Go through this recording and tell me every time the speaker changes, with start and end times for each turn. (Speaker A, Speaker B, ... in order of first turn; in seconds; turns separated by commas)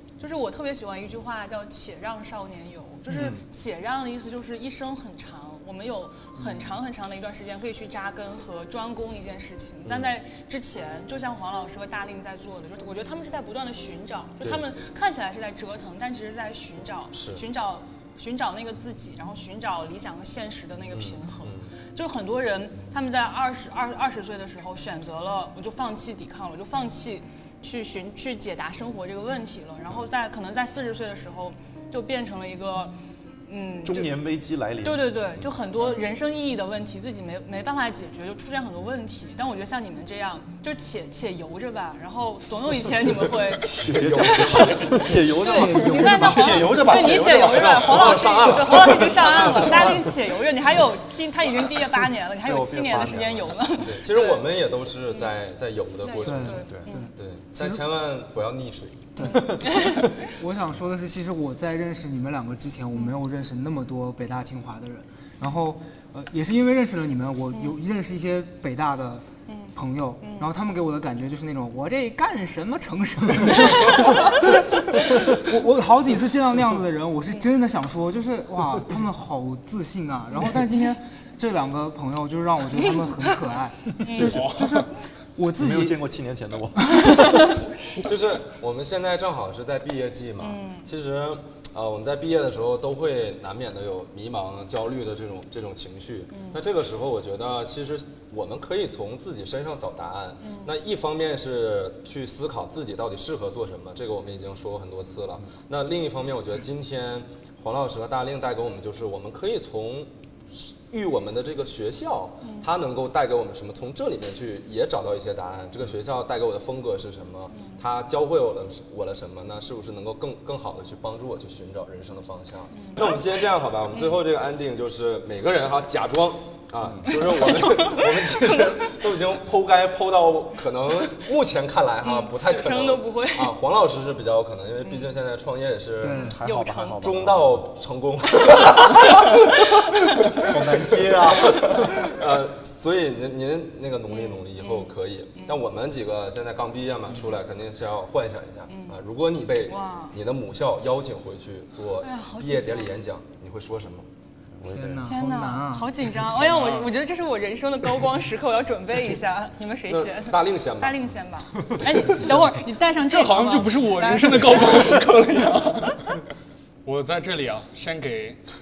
Speaker A: 0.2-32.9, Speaker B: 3.1-3.4, Speaker C: 9.8-10.2, Speaker C: 14.4-14.7, Speaker C: 17.1-17.4, Speaker C: 20.9-21.7, Speaker A: 33.5-34.1, Speaker B: 33.8-35.1, Speaker A: 34.8-54.4, Speaker C: 43.5-50.5, Speaker B: 43.8-48.2, Speaker D: 45.4-46.7, Speaker B: 49.7-50.0, Speaker B: 52.4-53.8, Speaker C: 53.7-59.1, Speaker A: 56.0-57.1, Speaker D: 56.2-57.8, Speaker B: 56.5-56.9, Speaker D: 59.2-86.0, Speaker A: 59.2-60.1, Speaker B: 59.3-59.5, Speaker A: 69.5-70.5, Speaker A: 84.0-84.4, Speaker E: 84.2-84.9, Speaker B: 85.6-87.4, Speaker D: 87.0-87.2, Speaker C: 88.0-136.3, Speaker A: 90.4-90.9, Speaker A: 96.3-96.6, Speaker A: 100.4-100.7, Speaker A: 117.5-117.8, Speaker A: 122.8-123.2, Speaker B: 126.8-127.1, Speaker A: 127.1-128.9, Speaker A: 132.0-133.5, Speaker D: 136.0-136.4, Speaker B: 136.0-137.6, Speaker A: 136.4-137.0, Speaker C: 136.9-139.8, Speaker A: 139.1-139.7, Speaker B: 140.4-142.1, Speaker C: 140.4-154.1, Speaker A: 144.1-145.6, Speaker A: 148.7-149.0, Speaker A: 149.7-150.2, Speaker A: 152.0-152.9, Speaker C: 154.6-155.1, Speaker D: 154.7-155.9, Speaker A: 155.1-165.0, Speaker E: 156.4-156.9, Speaker C: 159.9-161.0, Speaker C: 162.1-162.3, Speaker E: 163.1-166.2, Speaker E: 166.8-168.4